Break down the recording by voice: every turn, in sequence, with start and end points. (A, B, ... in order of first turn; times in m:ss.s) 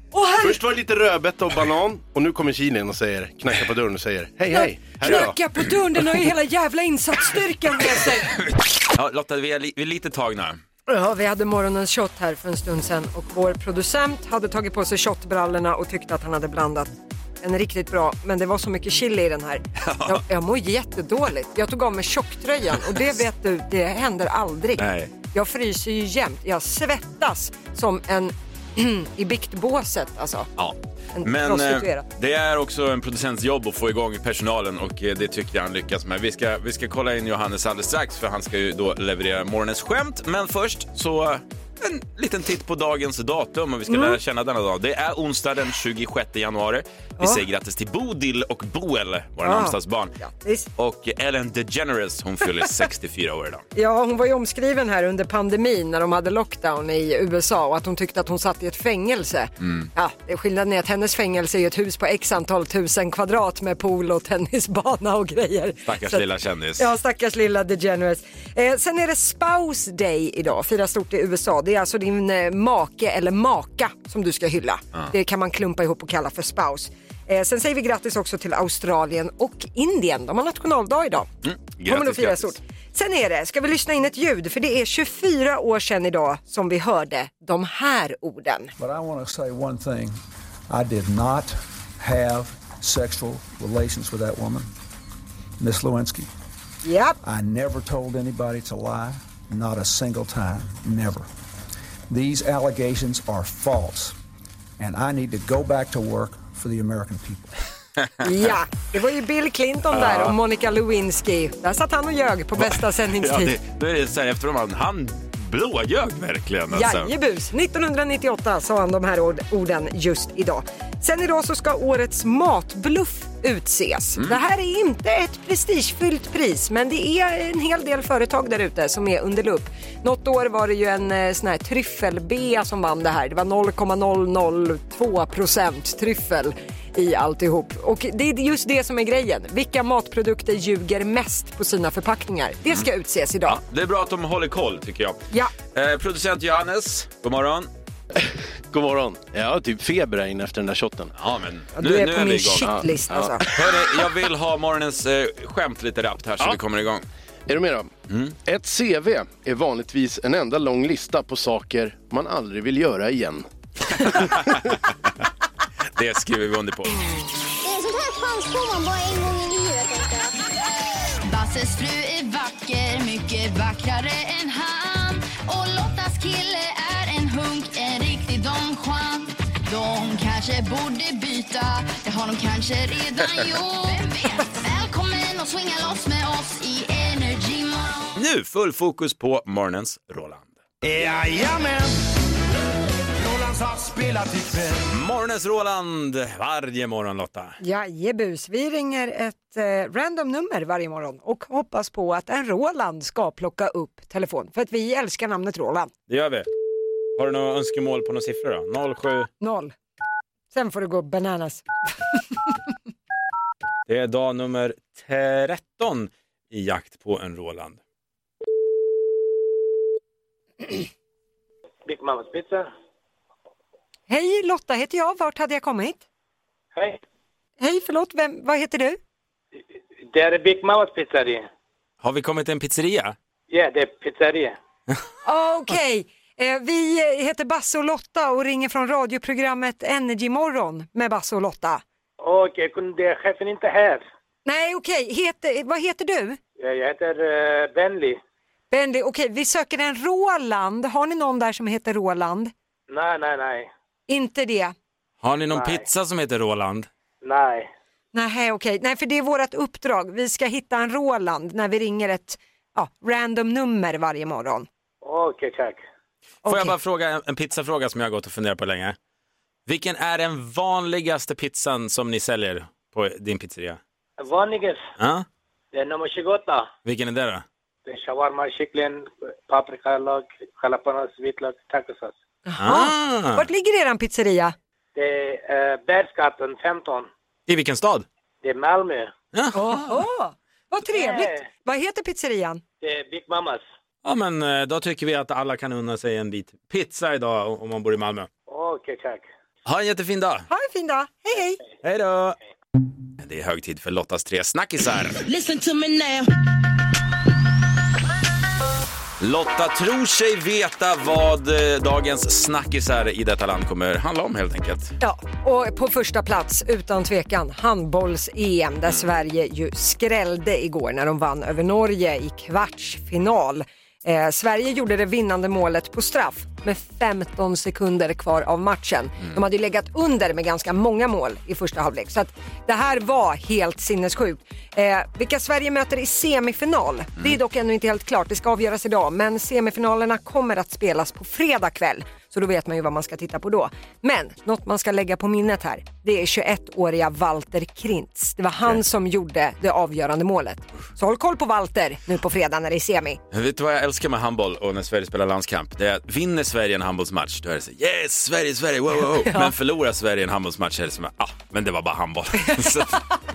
0:00.1-0:00.6 A
0:00.4-0:05.4 B
0:04.5-0:08.3 A
0:08.3-0:10.6 C
0:10.9-0:30.5 A
0:19.8-0:20.2 C
0:24.8-0:25.1 C
0:30.6-0:50.2 C
0:31.2-0:32.0 A
0:43.9-0:44.2 A
0:49.4-0:50.7 A
0:50.8-0:53.6 C
0:53.8-1:06.2 A
0:59.6-0:59.9 C
1:05.8-1:06.8 C
1:06.8-1:21.3 A
1:21.4-1:22.6 C
1:21.8-1:28.7 A
1:28.8-1:34.7 D
1:35.6-1:36.3 D
1:36.8-1:37.2 A
1:37.2-1:41.3 D
1:42.1-1:44.2 D
1:44.8-1:47.6 D
1:48.2-1:53.5 A
1:49.9-1:50.3 C
1:52.6-1:57.1 C
1:56.7-2:23.6 A
2:23.4-2:27.7 C
2:28.2-2:31.1 B
2:31.2-2:32.7 C
2:31.8-2:33.4 A
2:32.6-2:33.7 B
2:33.5-2:37.0 C
2:37.5-2:37.9 B
2:38.1-2:38.4 C
2:38.4-2:44.5 B
2:44.1-2:44.7 C
2:46.0-2:47.0 C
2:47.6-2:50.3 E
2:51.2-3:08.1 F
3:08.2-3:10.6 C
3:10.8-3:12.0 G
3:13.2-3:14.8 G
3:14.9-3:17.6 C
3:17.6-3:25.9 A
3:26.1-3:26.5 C
3:27.2-3:29.3 C
3:29.4-3:29.7 A
3:30.5-3:31.6 A
3:33.9-3:37.8 C
3:41.8-3:42.7 H
3:44.1-3:46.0 A
3:46.8-3:47.0 H
3:47.6-3:49.0 A
3:50.0-3:51.5 H
3:52.0-3:53.2 C
3:53.5-3:54.6 H
3:55.2-4:01.8 A
4:02.2-4:04.0 H
4:04.4-4:06.4 A
4:06.6-4:08.2 H
4:08.7-4:12.5 A
4:12.9-4:13.7 H
4:14.1-4:14.8 A
4:15.2-4:16.9 C
4:15.5-4:15.9 H
4:17.2-4:17.7 H
4:18.1-4:24.7 A
4:25.0-4:25.8 H
4:26.4-4:26.8 A
4:26.4-4:29.0 C
4:29.7-4:33.8 C
4:34.2-4:34.8 H
4:35.0-4:35.2 C
4:35.7-4:36.7 H
4:36.8-4:37.4 C
4:37.9-4:42.1 H
4:42.5-4:44.6 A
4:42.6-4:43.5 C
4:44.9-4:47.1 H
4:47.5-4:48.1 C
4:48.4-4:49.1 H
4:49.3-4:50.0 C
4:49.5-4:52.6 A
4:50.9-4:51.4 H
4:52.8-4:53.6 H
4:54.0-4:58.3 C
4:58.5-4:59.2 H
4:59.6-5:00.5 C
5:00.5-5:01.6 A
5:01.8-5:02.4 C
5:03.2-5:05.2 C
5:09.2-5:14.9 C
5:15.0-5:53.2 A
5:53.3-6:03.0 C
5:59.2-5:59.5 A
6:02.4-6:02.8 A